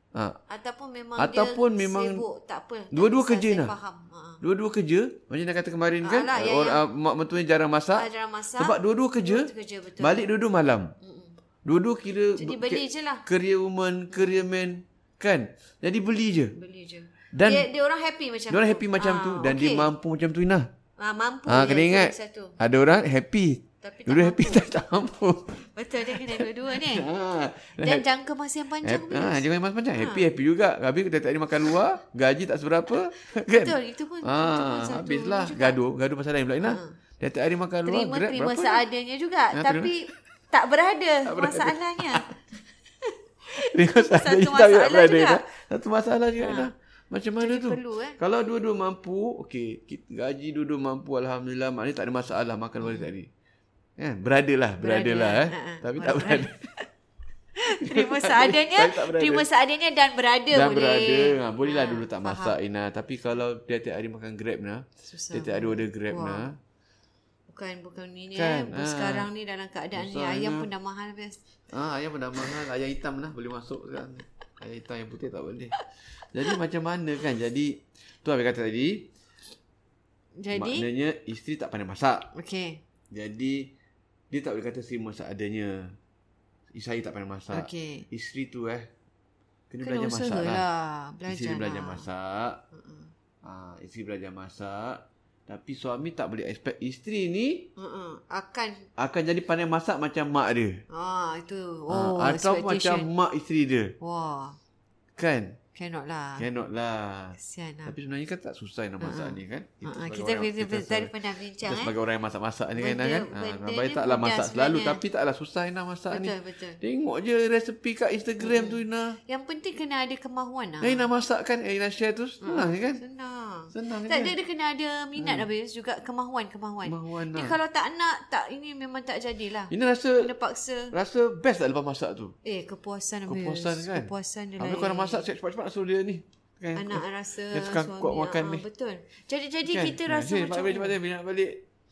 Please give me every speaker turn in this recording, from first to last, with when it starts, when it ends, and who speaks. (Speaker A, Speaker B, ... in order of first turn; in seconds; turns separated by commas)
Speaker A: 0.5-4.4, Speaker B: 1.2-2.2, Speaker B: 2.9-3.7, Speaker B: 4.4-10.9, Speaker A: 6.0-6.8, Speaker A: 7.9-10.3, Speaker A: 11.0-11.3, Speaker B: 11.6-16.5, Speaker A: 12.3-13.2, Speaker A: 14.1-14.5, Speaker A: 16.5-19.9, Speaker B: 17.3-17.7, Speaker B: 18.5-20.7, Speaker A: 21.0-22.6, Speaker B: 21.5-28.1, Speaker A: 23.8-24.6, Speaker A: 25.7-27.1, Speaker A: 27.8-29.4, Speaker B: 28.8-38.8, Speaker A: 30.0-30.2, Speaker A: 33.5-35.8, Speaker A: 36.6-36.9, Speaker A: 37.9-42.3, Speaker B: 39.5-40.0, Speaker B: 41.3-42.3, Speaker A: 43.0-45.4, Speaker B: 43.5-53.3, Speaker A: 46.4-46.7, Speaker A: 47.4-48.2, Speaker A: 52.8-53.1, Speaker B: 54.0-56.7, Speaker A: 54.8-56.8, Speaker A: 57.6-62.5, Speaker B: 57.8-59.5, Speaker B: 60.5-66.6, Speaker A: 65.1-66.4, Speaker A: 67.5-71.4, Speaker B: 68.3-69.3, Speaker B: 69.9-70.7, Speaker B: 71.7-75.8, Speaker B: 76.3-79.1, Speaker A: 80.4-80.9, Speaker B: 80.5-82.3, Speaker A: 82.3-82.8, Speaker B: 83.1-83.7, Speaker B: 84.3-86.0, Speaker B: 86.7-88.9, Speaker A: 87.5-88.0, Speaker B: 89.7-90.6, Speaker A: 89.8-92.1, Speaker B: 91.3-92.6, Speaker A: 92.7-93.1, Speaker B: 93.4-97.7, Speaker A: 97.8-98.8, Speaker B: 99.0-100.8, Speaker A: 100.9-103.1, Speaker B: 101.9-103.9, Speaker A: 104.0-104.6, Speaker B: 105.2-105.6, Speaker A: 105.7-106.5, Speaker B: 106.4-119.2, Speaker A: 107.4-107.9, Speaker A: 109.0-111.9, Speaker A: 112.8-115.0, Speaker A: 116.1-116.8, Speaker A: 118.4-121.1, Speaker B: 120.8-123.0, Speaker A: 122.4-130.9, Speaker B: 123.7-124.3, Speaker B: 125.2-125.5, Speaker B: 126.8-127.5, Speaker B: 129.7-130.3, Speaker B: 130.9-132.3, Speaker A: 132.4-135.2, Speaker B: 133.3-138.6, Speaker A: 136.7-141.0, Speaker B: 139.7-141.6